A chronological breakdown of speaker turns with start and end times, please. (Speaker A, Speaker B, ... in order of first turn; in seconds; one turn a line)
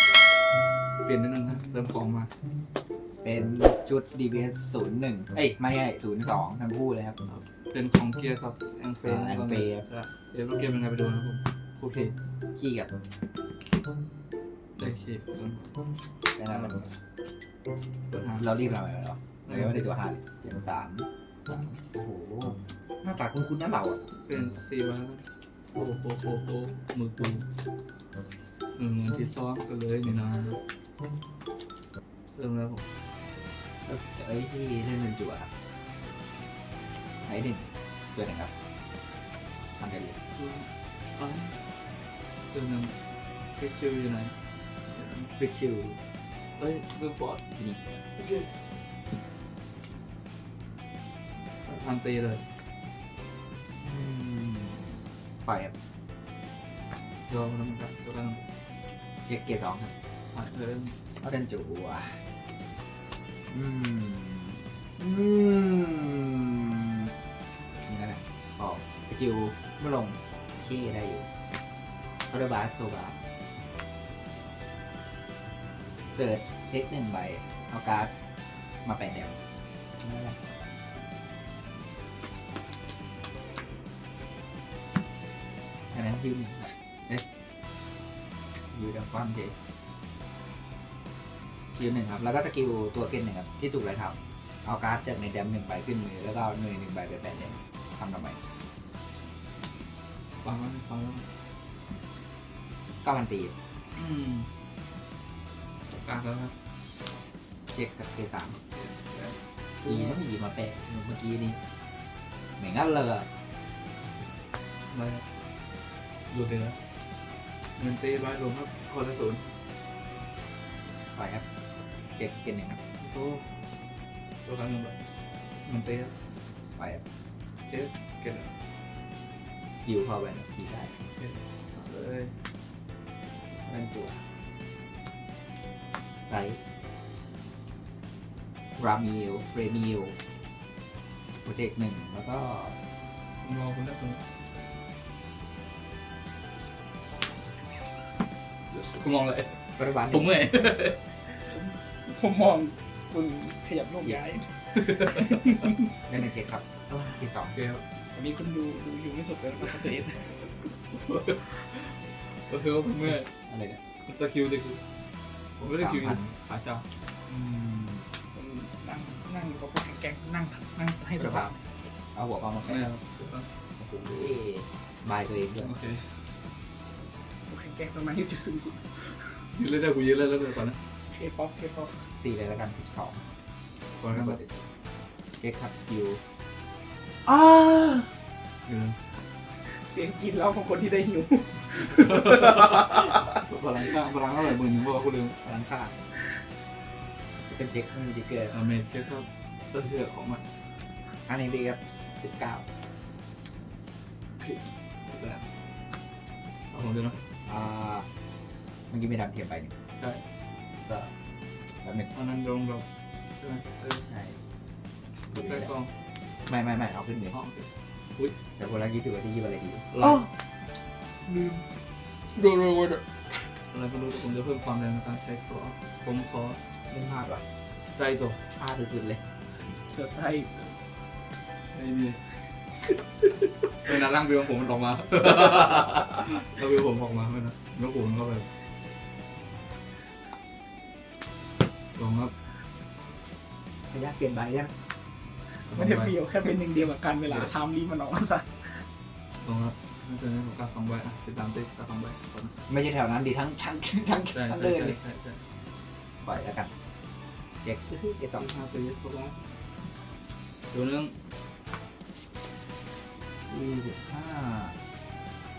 Speaker A: 1.0-2.3
Speaker B: 3.2-7.2
Speaker A: 7.3-12.2
Speaker B: 9.0-9.9
Speaker B: 12.6-12.9
Speaker A: 14.8-15.8
Speaker B: 16.4-16.9
Speaker A: 16.5-16.8
Speaker A: 18.1-18.5
Speaker B: 18.4-24.0
Speaker A: 19.5-19.9
Speaker A: 24.2-27.4
Speaker A: 28.8-30.6
Speaker A: 32.4-32.9
Speaker B: 33.9-35.5
Speaker B: 37.3-38.5
Speaker B: 39.8-40.2
Speaker A: 40.4-41.6
Speaker A: 42.5-43.0
Speaker A: 43.5-45.3
Speaker B: 45.4-46.0
Speaker A: 46.6-47.4
Speaker B: 47.6-48.0
Speaker A: 48.2-48.5
Speaker A: 51.6-52.4
Speaker B: 53.8-55.7
Speaker A: 57.3-58.4
Speaker B: 59.3-59.9
Speaker A: 60.3-61.0
Speaker B: 61.2-62.2
Speaker B: 63.5-67.1
Speaker B: 67.9-71.3
Speaker B: 72.3-73.2
Speaker B: 76.1-78.1
Speaker B: 78.8-79.4
Speaker B: 80.0-80.4
Speaker B: 85.9-87.2
Speaker B: 88.7-89.5
Speaker B: 91.7-98.4
Speaker A: 100.4-101.3
Speaker B: 103.0-103.5
Speaker A: 104.0-104.5
Speaker A: 105.9-106.5
Speaker B: 107.7-108.6
Speaker A: 108.7-110.2
Speaker B: 109.8-111.6
Speaker B: 112.6-113.3
Speaker A: 114.9-115.2
Speaker A: 116.3-116.8
Speaker A: 117.8-119.5
Speaker B: 121.2-121.5
Speaker B: 122.2-122.8
Speaker A: 123.0-123.5
Speaker A: 124.4-125.0
Speaker A: 125.7-126.2
Speaker B: 126.8-127.0
Speaker A: 127.6-128.5
Speaker B: 129.8-131.0
Speaker A: 131.2-132.4
Speaker B: 133.7-134.2
Speaker B: 136.3-136.6
Speaker B: 138.8-140.2
Speaker B: 141.4-142.8
Speaker A: 143.4-144.2
Speaker A: 148.7-151.0
Speaker B: 149.8-150.3
Speaker C: 151.5-155.8
Speaker A: 154.8-155.9
Speaker B: 156.1-157.6
Speaker A: 157.6-157.8
Speaker C: 158.1-160.7
Speaker A: 160.9-163.3
Speaker B: 163.4-163.8
Speaker A: 164.1-164.8
Speaker A: 165.6-166.8
Speaker B: 165.6-166.3
Speaker B: 167.3-168.1
Speaker C: 168.3-171.7
Speaker B: 171.2-171.5
Speaker B: 172.2-172.9
Speaker A: 172.6-173.5
Speaker B: 173.8-175.7
Speaker A: 175.6-176.2
Speaker C: 177.5-179.5
Speaker A: 179.5-180.8
Speaker C: 181.1-182.1
Speaker B: 182.2-183.2
Speaker A: 184.0-184.5
Speaker B: 184.1-184.4
Speaker B: 185.4-186.2
Speaker C: 187.3-188.1
Speaker A: 188.7-189.0
Speaker C: 189.6-193.4
Speaker A: 191.8-195.4
Speaker B: 195.4-196.0
Speaker B: 197.5-198.6
Speaker A: 198.5-200.5
Speaker B: 201.3-202.7
Speaker A: 204.4-205.5
Speaker A: 206.7-207.3
Speaker B: 207.5-208.1
Speaker B: 208.9-209.7
Speaker A: 210.0-210.2
Speaker B: 210.8-211.1
Speaker B: 211.8-212.1
Speaker A: 212.1-212.9
Speaker A: 213.4-214.1
Speaker B: 214.1-214.4
Speaker B: 215.3-215.7
Speaker A: 215.3-215.9
Speaker B: 216.5-217.3
Speaker A: 217.3-218.3
Speaker B: 218.6-220.3
Speaker A: 219.9-220.3
Speaker B: 221.3-221.6
Speaker C: 222.4-223.0
Speaker A: 223.7-226.6
Speaker B: 226.9-227.4
Speaker A: 227.8-228.4
Speaker B: 228.6-229.2
Speaker C: 229.7-230.8
Speaker A: 231.7-232.2
Speaker A: 233.8-238.5
Speaker A: 241.9-242.3
Speaker B: 243.9-244.7
Speaker A: 245.7-246.2
Speaker C: 245.7-248.8
Speaker A: 247.2-247.5
Speaker A: 249.4-252.5
Speaker B: 252.7-255.0
Speaker A: 254.3-255.4
Speaker B: 256.2-256.7
Speaker B: 257.6-258.5
Speaker A: 258.4-259.4
Speaker A: 260.7-261.2
Speaker B: 263.5-264.8